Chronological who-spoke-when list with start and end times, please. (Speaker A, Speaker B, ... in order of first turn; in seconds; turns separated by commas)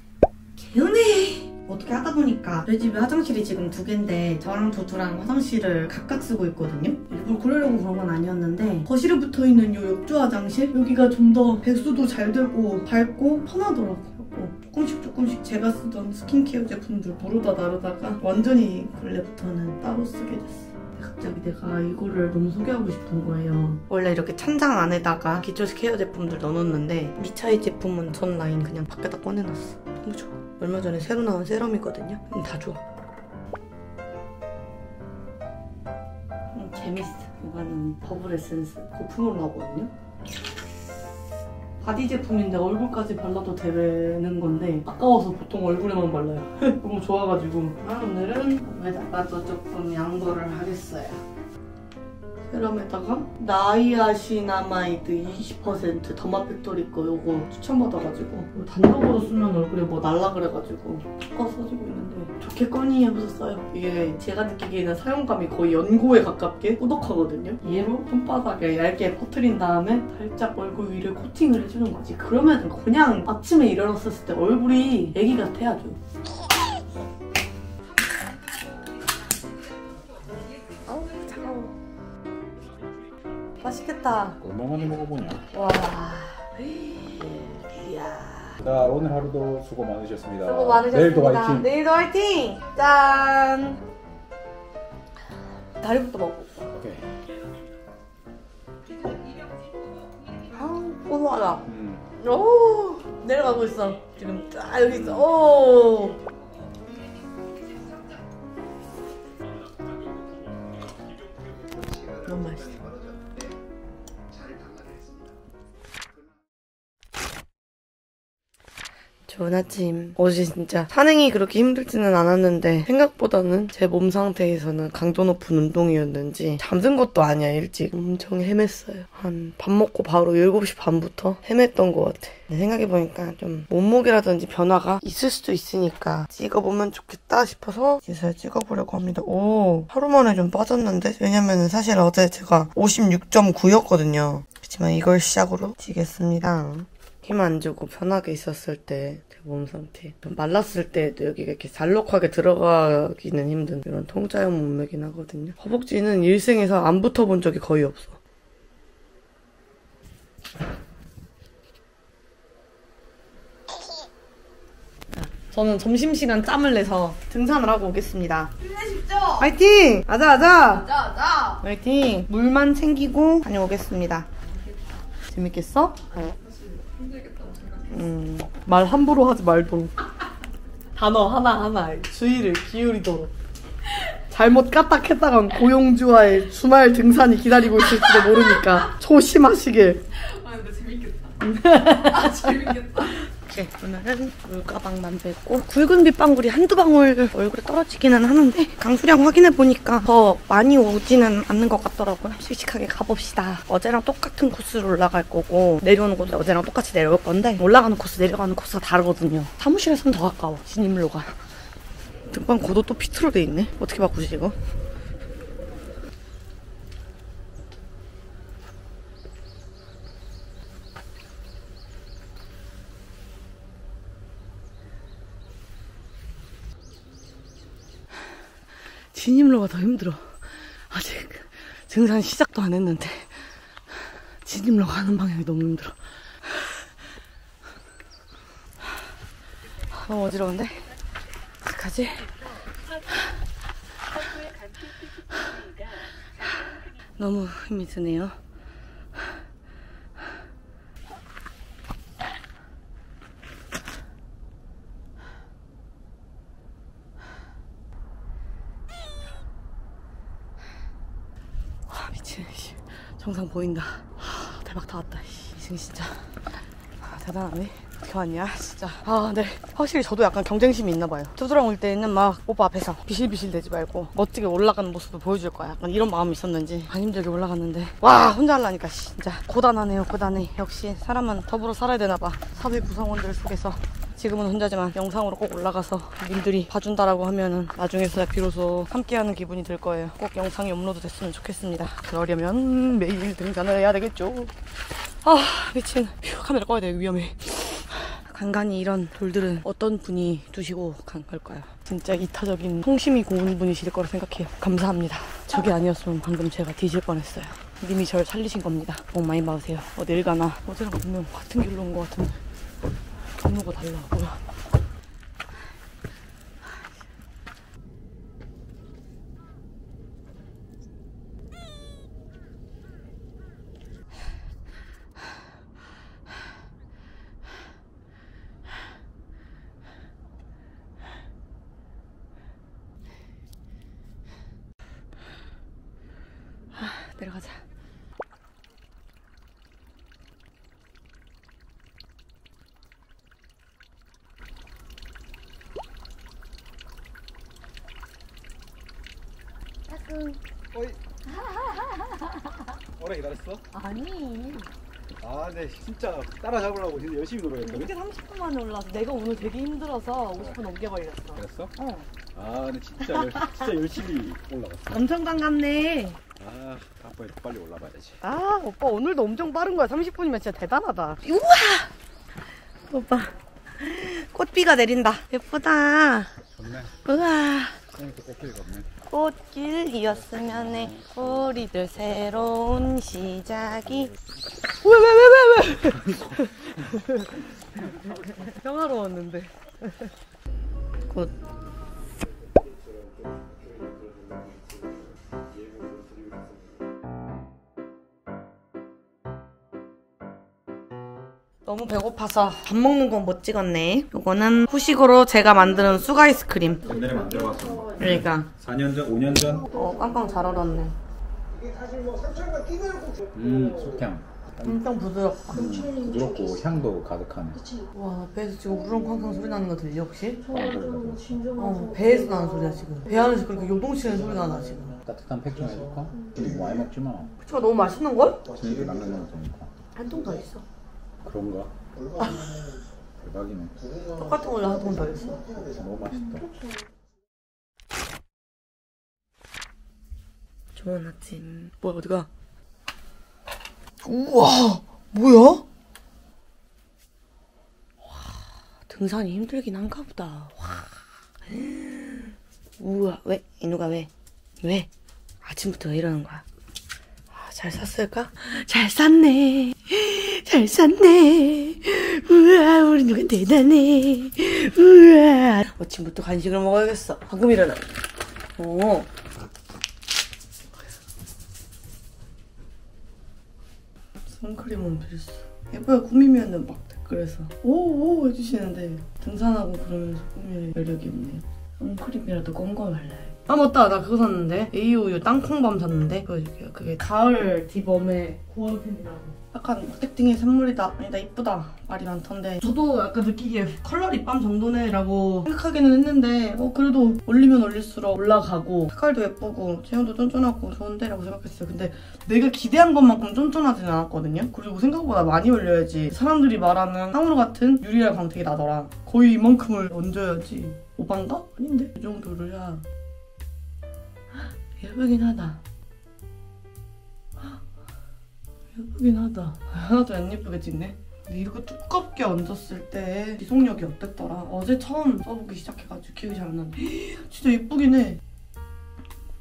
Speaker A: 0.6-32.8, Speaker A: 36.5-39.9, Speaker A: 41.8-51.2, Speaker A: 52.5-76.0, Speaker A: 80.8-81.8, Speaker A: 83.6-84.4, Speaker B: 84.4-85.5, Speaker A: 85.5-88.6, Speaker B: 88.6-91.7, Speaker A: 90.4-93.8, Speaker A: 95.8-96.7, Speaker B: 96.7-97.1, Speaker A: 100.5-101.7, Speaker B: 101.7-102.1, Speaker A: 102.2-106.2, Speaker B: 105.0-105.2, Speaker A: 112.2-113.0, Speaker A: 119.3-158.2, Speaker A: 165.1-168.5, Speaker C: 168.6-169.5, Speaker A: 169.4-170.9, Speaker C: 170.8-171.6, Speaker A: 171.6-174.3, Speaker A: 175.3-176.0, Speaker C: 176.2-177.9, Speaker A: 177.9-180.0, Speaker A: 180.9-183.3, Speaker A: 184.3-190.0, Speaker C: 190.2-191.4, Speaker A: 191.4-211.4, Speaker C: 191.9-193.1, Speaker A: 212.3-214.6, Speaker A: 229.1-233.5, Speaker A: 234.4-236.0, Speaker A: 239.9-240.9, Speaker A: 241.6-242.3, Speaker A: 247.2-248.4, Speaker A: 261.9-294.5, Speaker A: 295.2-312.4, Speaker A: 313.4-314.4, Speaker A: 336.8-337.6, Speaker A: 349.9-350.4, Speaker B: 350.7-351.0, Speaker B: 353.0-353.6, Speaker A: 353.7-354.7, Speaker B: 355.2-358.0, Speaker A: 357.6-362.1, Speaker B: 361.4-361.8, Speaker B: 362.3-365.1, Speaker A: 363.2-363.7, Speaker A: 364.9-366.2, Speaker B: 366.4-368.2, Speaker A: 368.2-371.9, Speaker A: 372.9-376.3, Speaker B: 376.5-377.0, Speaker A: 377.1-377.8, Speaker B: 377.9-378.9, Speaker A: 379.1-384.1, Speaker B: 380.2-381.6, Speaker A: 384.8-390.1, Speaker B: 386.0-386.4, Speaker B: 393.0-395.0, Speaker B: 395.7-396.6, Speaker A: 401.6-406.9, Speaker B: 406.9-409.7, Speaker A: 408.0-408.5, Speaker A: 409.7-411.0, Speaker B: 412.2-414.9, Speaker A: 414.6-415.7, Speaker B: 415.5-417.7, Speaker A: 417.9-420.5, Speaker B: 420.5-421.5, Speaker A: 421.6-425.0, Speaker B: 425.0-427.4, Speaker A: 427.4-428.4, Speaker B: 428.5-429.7, Speaker A: 430.0-430.6, Speaker B: 431.2-431.8, Speaker A: 432.2-432.5, Speaker B: 433.2-433.9, Speaker A: 434.2-435.5, Speaker B: 435.5-436.6, Speaker A: 440.8-442.3, Speaker A: 444.0-445.6, Speaker A: 448.1-450.9, Speaker A: 451.5-454.1, Speaker A: 454.6-454.9, Speaker A: 455.4-456.4, Speaker A: 457.3-468.0, Speaker A: 468.6-469.1, Speaker A: 474.2-512.8, Speaker A: 514.4-515.6, Speaker A: 518.8-528.2